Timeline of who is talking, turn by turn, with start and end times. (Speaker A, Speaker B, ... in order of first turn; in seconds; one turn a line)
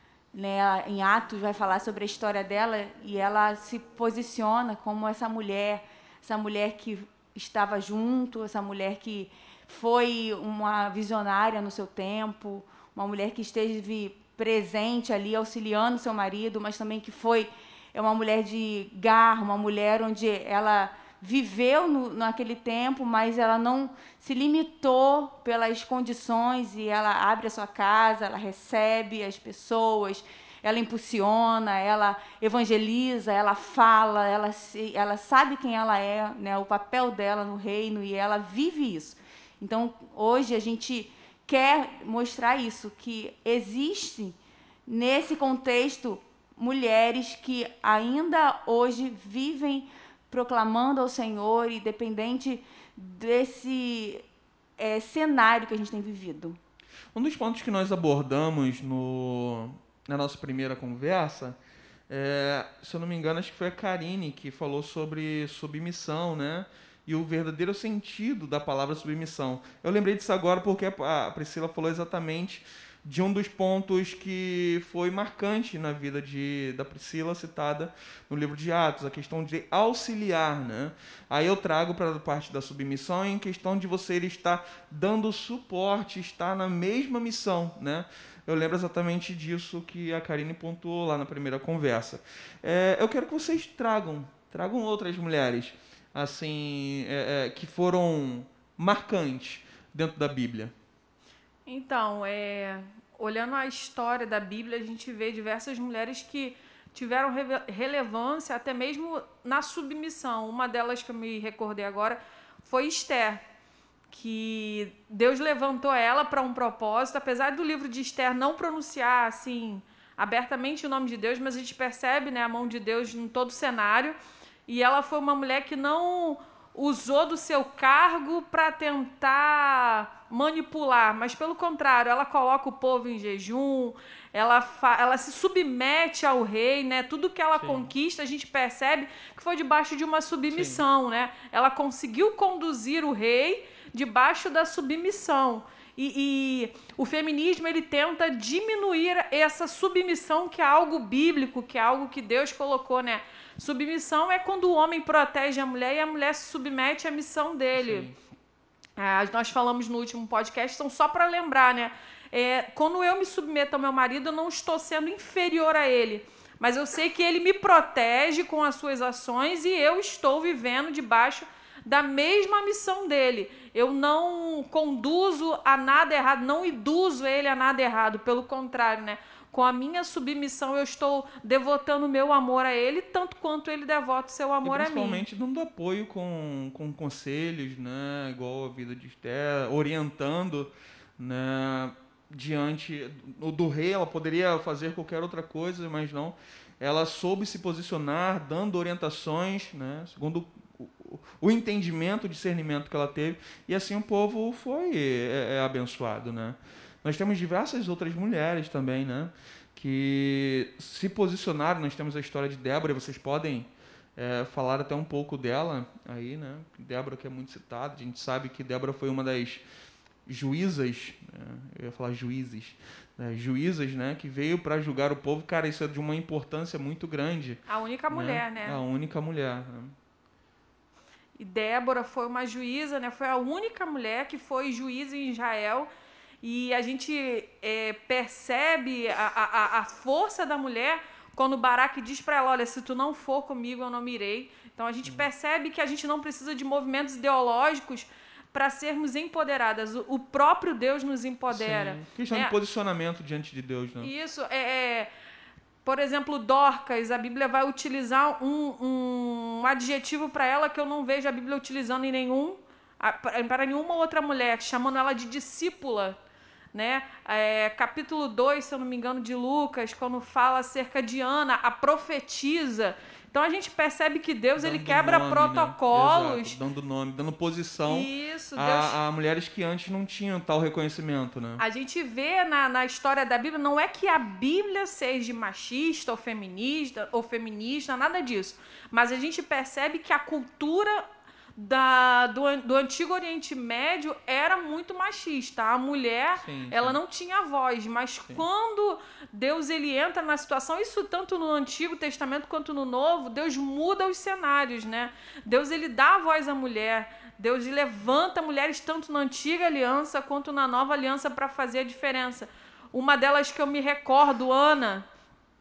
Speaker A: 0.3-54.2
Speaker A: 54.8-56.6
Speaker B: 57.1-61.6
Speaker B: 62.1-100.7
Speaker C: 101.7-113.4
Speaker C: 114.1-158.1
Speaker B: 137.6-137.9
Speaker B: 140.5-140.8
Speaker B: 157.7-158.2
Speaker C: 159.0-185.2
Speaker B: 184.6-219.6
Speaker B: 220.2-229.9
Speaker C: 227.7-228.8
Speaker C: 231.4-235.9
Speaker C: 236.4-252.5
Speaker B: 251.5-254.1
Speaker C: 254.0-255.1
Speaker C: 255.8-266.2
Speaker C: 266.7-276.6
Speaker B: 274.6-281.6
Speaker C: 277.9-279.0
Speaker C: 281.6-315.1
Speaker B: 296.4-297.0